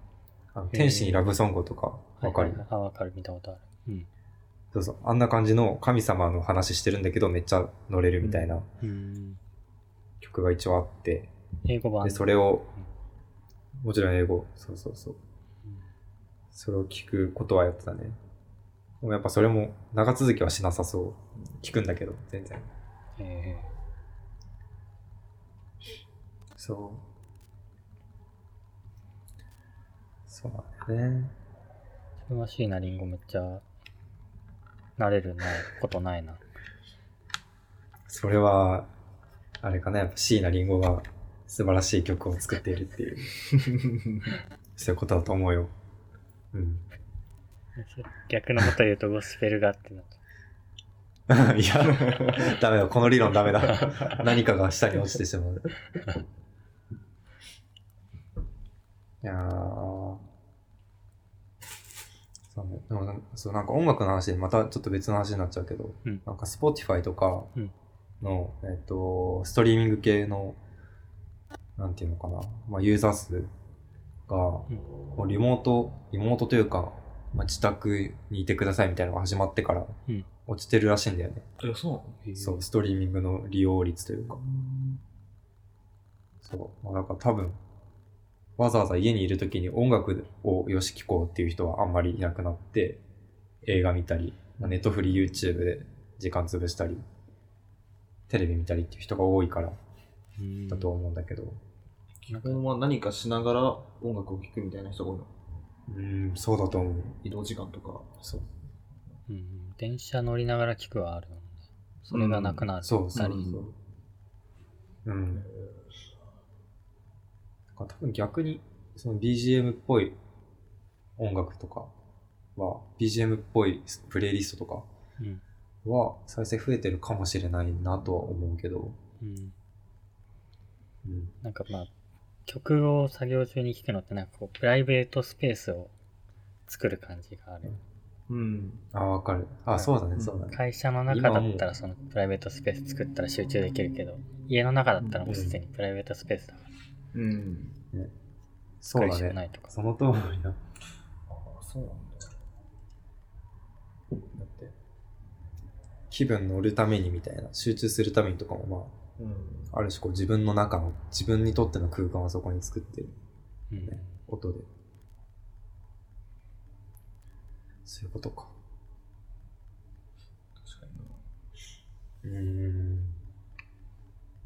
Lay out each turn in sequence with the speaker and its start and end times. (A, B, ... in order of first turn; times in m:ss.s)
0:00.6-0:02.6 A
0:00.7-0:01.3 B
0:02.2-0:04.1 B
0:04.7-0:08.7 A
0:08.2-0:08.6 C
0:08.8-0:09.4 B
0:10.2-0:11.3 A
0:11.6-0:12.8 B
0:12.0-0:12.7 A
0:13.8-0:15.2 A
0:15.6-0:15.9 B
0:16.5-0:18.2 A
0:19.0-0:22.7 A
0:23.2-0:23.7 B
0:26.6-0:27.0 A
0:30.3-0:31.3 A
0:32.3-0:33.6 B
0:35.0-0:36.4 B
0:38.1-0:38.9 A
0:39.6-0:43.3 A
0:43.6-0:44.2 C
0:44.8-0:45.7 A
0:46.5-0:46.8 A
0:47.8-0:50.2 B
0:51.3-0:55.8 A
0:59.2-1:00.2 A
1:02.5-1:07.5 A
1:08.2-1:10.6 A
1:11.8-1:13.5 A
1:14.3-1:21.5 A
1:21.6-1:22.2 C
1:22.2-1:22.6 B
1:22.4-1:24.4 A
1:24.3-1:25.0 C
1:26.4-1:27.6 A
1:28.6-1:33.0 A
1:33.6-1:37.0 A
1:38.3-1:39.8 A
1:40.4-1:41.0 B
1:40.7-1:41.6 A
1:42.2-1:45.3 C
1:42.3-1:42.6 B
1:45.9-1:47.2 A
1:47.2-1:48.1 C
1:48.2-1:48.5 A
1:49.3-1:53.5 B
1:52.1-1:53.7 C
1:52.8-1:53.7 A
1:55.0-1:55.5 A
1:55.4-1:55.8 C
1:57.8-2:00.2 A
2:01.2-2:01.9 A
2:02.6-2:04.9 A
2:05.8-2:09.0 A
2:09.2-2:09.6 B
2:11.0-2:11.3 A
2:11.4-2:11.9 B
2:12.5-2:15.9 B
2:16.7-2:17.8 B
2:18.3-2:18.8 C
2:18.9-2:21.7 A
2:20.5-2:26.7 B
2:25.0-2:25.4 C
2:25.3-2:25.6 A
2:27.1-2:27.8 C
2:28.8-2:30.6 A
2:28.9-2:29.7 B
2:31.3-2:32.4 C
2:34.4-2:34.7 A
2:36.1-2:38.9 A
2:39.2-2:39.7 C
2:39.7-2:43.1 A
2:43.7-2:44.1 B
2:43.8-2:44.7 A
2:47.8-2:48.5 A
2:50.6-2:51.2 C
2:52.2-2:53.2 A